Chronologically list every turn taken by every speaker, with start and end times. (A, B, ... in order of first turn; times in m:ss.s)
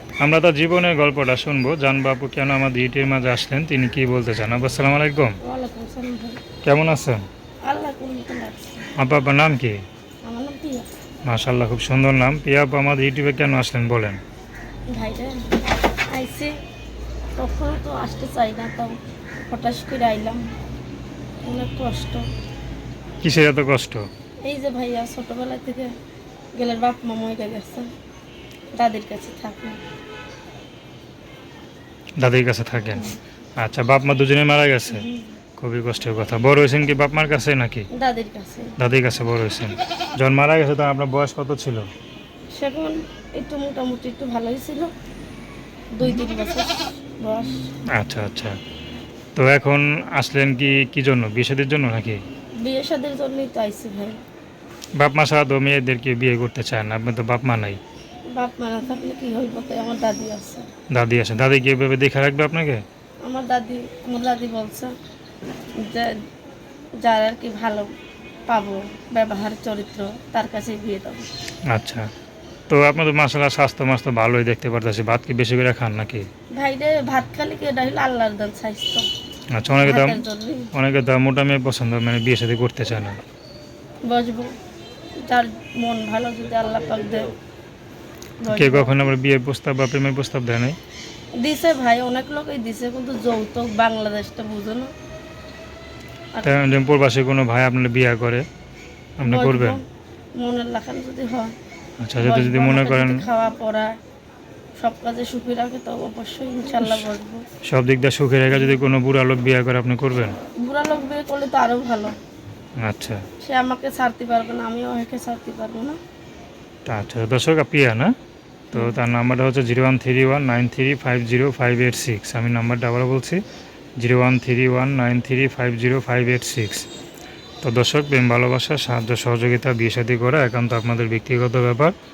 0:00.2-0:05.4 A
0:05.4-0:06.4 B
0:06.6-0:07.2 A
0:07.7-0:08.8 B
0:09.0-0:09.8 A
0:10.2-0:10.9 B
0:11.3-0:14.2 A
0:14.9-0:15.6 B
0:16.1-0:16.6 B
0:17.4-0:20.4 B
0:21.4-0:22.2 B
0:23.2-0:24.0 A
0:24.4-0:25.9 B
0:26.6-0:27.9 B
0:28.7-0:29.8 B
0:32.2-0:35.0 A
0:34.9-0:35.3 B
0:35.6-0:37.9 A
0:37.9-0:38.7 B
0:38.8-0:41.9 A
0:42.6-0:44.9 B
0:45.9-0:47.6 B
0:48.0-0:48.6 A
0:49.4-0:52.2 A
0:52.6-0:54.2 B
0:55.0-0:57.8 A
0:58.3-1:00.7 B
1:00.9-1:02.8 A
1:03.2-1:04.9 B
1:05.8-1:06.1 B
1:07.0-1:07.9 B
1:08.5-1:11.3 B
1:11.7-1:12.1 A
1:12.7-1:16.3 A
1:16.6-1:19.1 B
1:19.5-1:20.2 A
1:19.8-1:20.7 B
1:20.7-1:23.2 A
1:24.1-1:24.5 B
1:25.2-1:27.3 B
1:28.4-1:29.1 B
1:28.5-1:30.8 A
1:31.4-1:34.9 B
1:36.4-1:38.4 A
1:39.2-1:39.8 A
1:39.3-1:39.8 B
1:40.4-1:41.5 B
1:42.0-1:43.3 A
1:42.2-1:43.9 B
1:44.8-1:47.4 B
1:47.6-1:50.4 A
1:50.6-1:52.2 B
1:52.8-1:53.2 A
1:53.4-1:56.0 B
1:56.9-1:58.1 A
1:58.7-2:03.4 A
2:04.0-2:06.8 A
2:07.6-2:11.9 A